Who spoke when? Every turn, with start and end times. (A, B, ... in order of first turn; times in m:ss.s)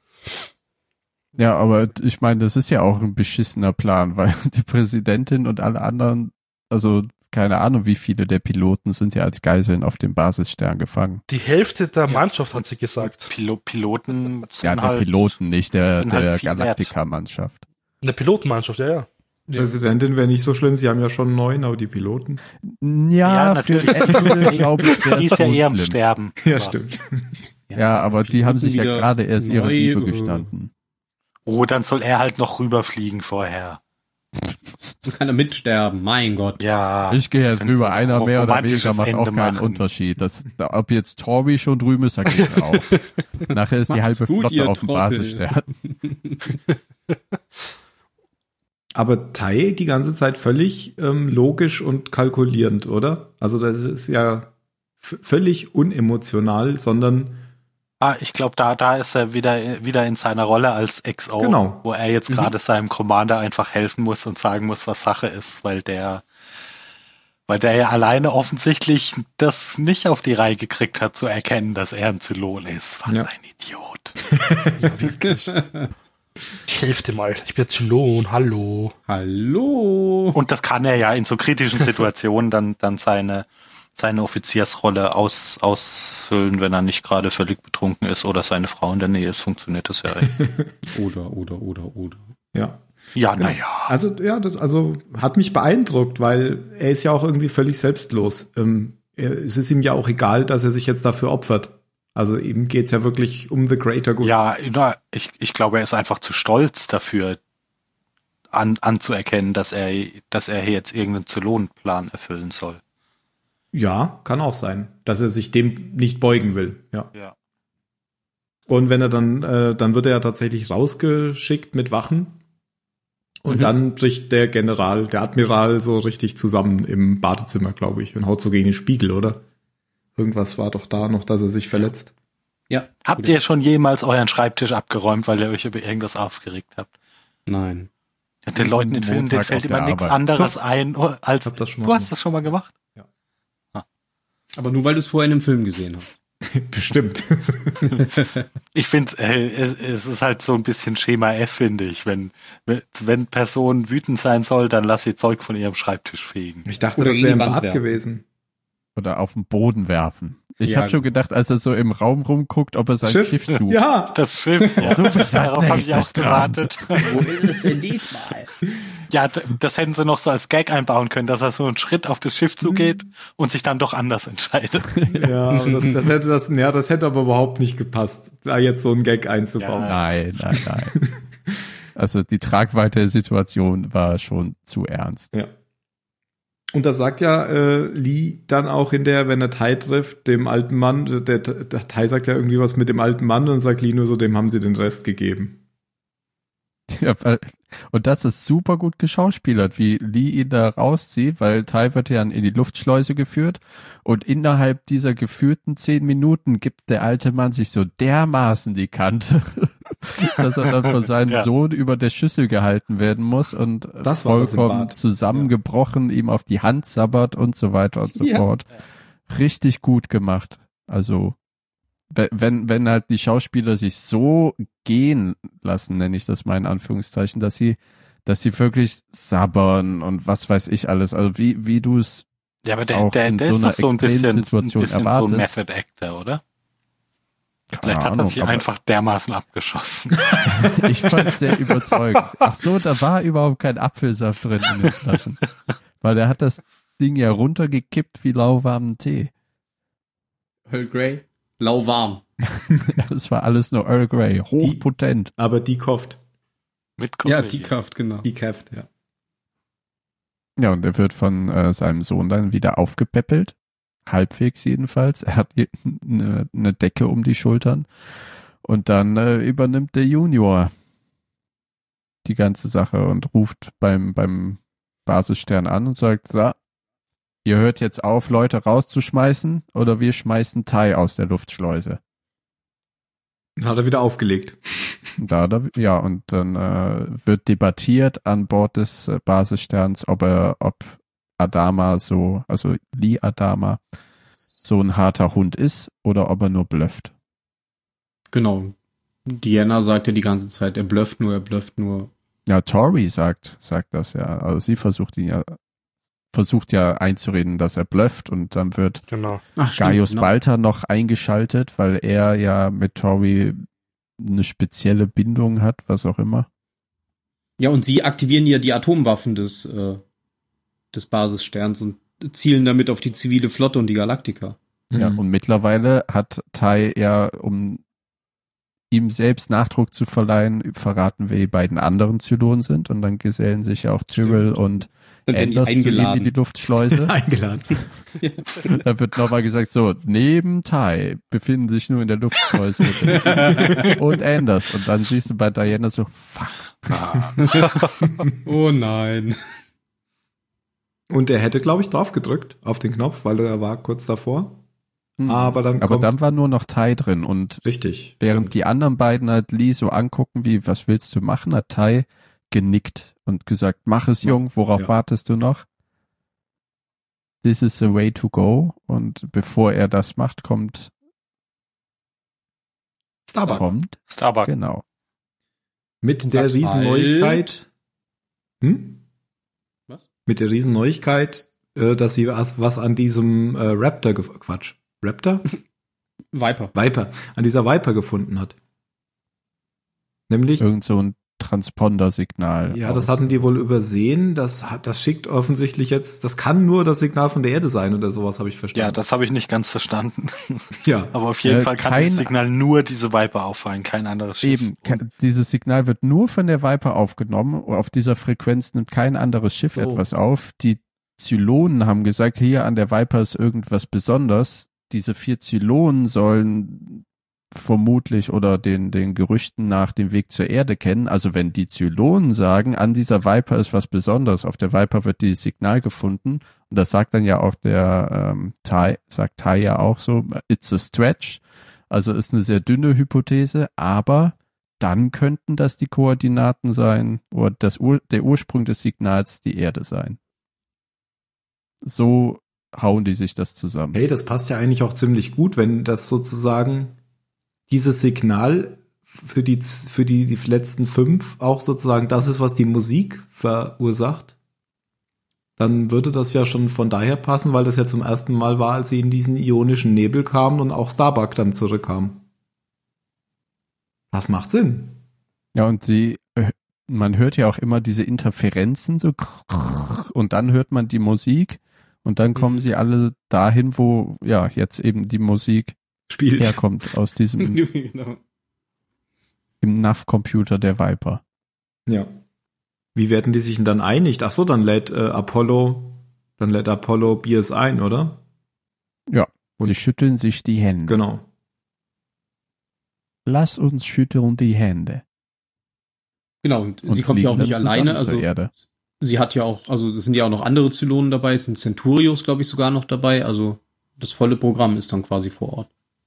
0:01.4-0:11.2 A
0:11.3-0:13.3 B
0:12.1-0:15.4 C
0:14.6-0:17.6 A
0:15.9-0:16.9 C
0:18.0-0:19.1 B
0:19.5-0:22.4 D
0:22.6-0:26.0 A
0:23.2-0:26.8 C
0:26.4-0:27.4 D
0:27.7-0:30.5 E
0:27.7-0:30.7 A
0:31.5-0:33.8 C
0:35.1-0:36.6 E
0:36.6-0:39.8 C
0:37.1-0:45.7 A
0:42.7-0:43.0 B
0:43.9-0:46.6 E
0:49.0-0:57.4 D
0:58.0-1:06.2 C
1:01.4-1:01.8 D
1:07.5-1:14.2 C
1:14.3-1:15.0 D
1:14.8-1:15.6 B
1:15.5-1:15.9 E
1:16.7-1:19.0 B
1:19.1-1:20.4 E
1:20.3-1:30.4 C
1:30.3-1:30.7 D
1:30.9-1:32.2 E
1:32.5-1:32.8 D
1:33.2-1:33.9 C
1:33.4-1:44.4 D
1:44.2-1:47.4 C
1:48.5-1:52.8 C
1:53.7-1:57.1 D
1:58.7-2:02.4 D
2:03.4-2:09.4 D
2:10.2-2:12.1 D
2:12.7-2:13.4 E
2:13.0-2:16.9 C
2:17.5-2:17.9 E
2:18.5-2:22.7 C
2:18.6-2:20.2 A
2:21.4-2:22.1 D
2:24.6-2:26.1 E
2:26.5-2:28.1 D
2:28.7-2:36.7 C
2:36.7-2:38.2 D
2:37.0-2:37.8 E
2:39.0-2:43.8 A
2:40.6-2:41.0 E
2:43.0-2:44.2 D
2:44.1-2:47.7 C
2:44.8-2:47.1 A
2:47.0-2:48.5 E
2:49.1-2:55.0 C
2:52.7-2:52.9 D
2:55.0-2:55.3 A
2:55.1-3:00.0 D
2:55.5-2:56.0 E
2:59.6-3:00.0 C
2:59.8-3:01.0 A
3:00.5-3:01.2 D
3:02.0-3:05.3 A
3:06.7-3:15.6 D
3:16.9-3:38.7 A
3:34.0-3:35.5 D
3:38.2-3:38.4 E
3:39.3-3:41.4 A
3:42.1-3:52.3 A
3:52.6-3:56.4 C
3:52.9-3:55.6 A
3:57.7-3:58.7 A
3:57.8-4:00.8 C
4:00.4-4:05.4 A
4:06.0-4:09.3 A
4:10.7-4:12.3 E
4:12.9-4:15.3 A
4:15.4-4:16.2 D
4:17.0-4:17.7 C
4:17.2-4:18.3 E
4:18.2-4:18.9 D
4:20.6-4:23.6 A
4:24.1-4:27.9 A
4:28.6-4:30.7 A
4:32.2-4:36.6 A
4:37.4-4:42.0 A
4:43.6-4:45.0 D
4:45.2-4:53.8 A
4:54.6-4:57.1 A
4:58.3-4:58.7 E
4:59.3-5:02.1 E
5:02.5-5:05.6 A
5:06.3-5:09.0 A
5:09.1-5:09.4 B
5:09.6-5:10.3 E
5:09.8-5:13.6 A
5:14.2-5:16.5 A
5:17.6-5:20.0 E
5:20.9-5:24.6 E
5:24.9-5:25.2 D
5:25.0-5:27.8 A
5:28.9-5:37.1 A
5:35.3-5:36.3 E
5:37.0-5:37.8 D
5:38.2-5:38.8 E
5:38.7-5:47.0 A
5:43.1-5:44.0 E
5:46.9-5:47.9 C
5:48.4-5:49.4 E
5:51.1-5:54.6 D
5:55.2-5:57.6 A
5:55.2-5:56.1 D
5:57.6-5:58.5 D
5:58.2-6:05.6 A
6:04.2-6:04.9 D
6:07.4-6:10.9 A
6:13.3-6:13.7 D
6:13.5-6:14.8 A
6:14.1-6:14.5 C
6:16.0-6:17.7 D
6:16.2-6:17.4 E
6:18.6-6:19.0 D
6:20.3-6:25.5 D
6:26.3-6:26.7 E
6:26.7-6:28.6 D
6:30.3-6:30.7 D
6:30.6-6:33.2 A
6:32.7-6:39.0 D
6:38.7-6:45.0 C
6:40.8-6:41.1 D
6:41.4-6:42.3 A
6:44.4-7:20.2 A
6:49.7-6:50.0 D
7:21.8-7:24.0 A
7:23.9-7:27.0 D
7:27.7-7:34.3 D
7:35.6-7:42.2 D
7:44.1-7:45.0 D
7:45.6-7:55.8 A
7:52.4-7:52.6 E
7:56.1-7:56.6 D
7:56.4-7:57.6 A
7:57.4-7:58.2 E
7:59.6-8:01.2 A
8:01.9-8:02.1 D
8:03.0-8:08.2 D
8:09.1-8:11.0 A
8:10.9-8:11.2 D
8:13.3-8:15.0 A
8:16.4-8:18.3 E
8:16.9-8:18.5 A
8:19.0-8:25.7 E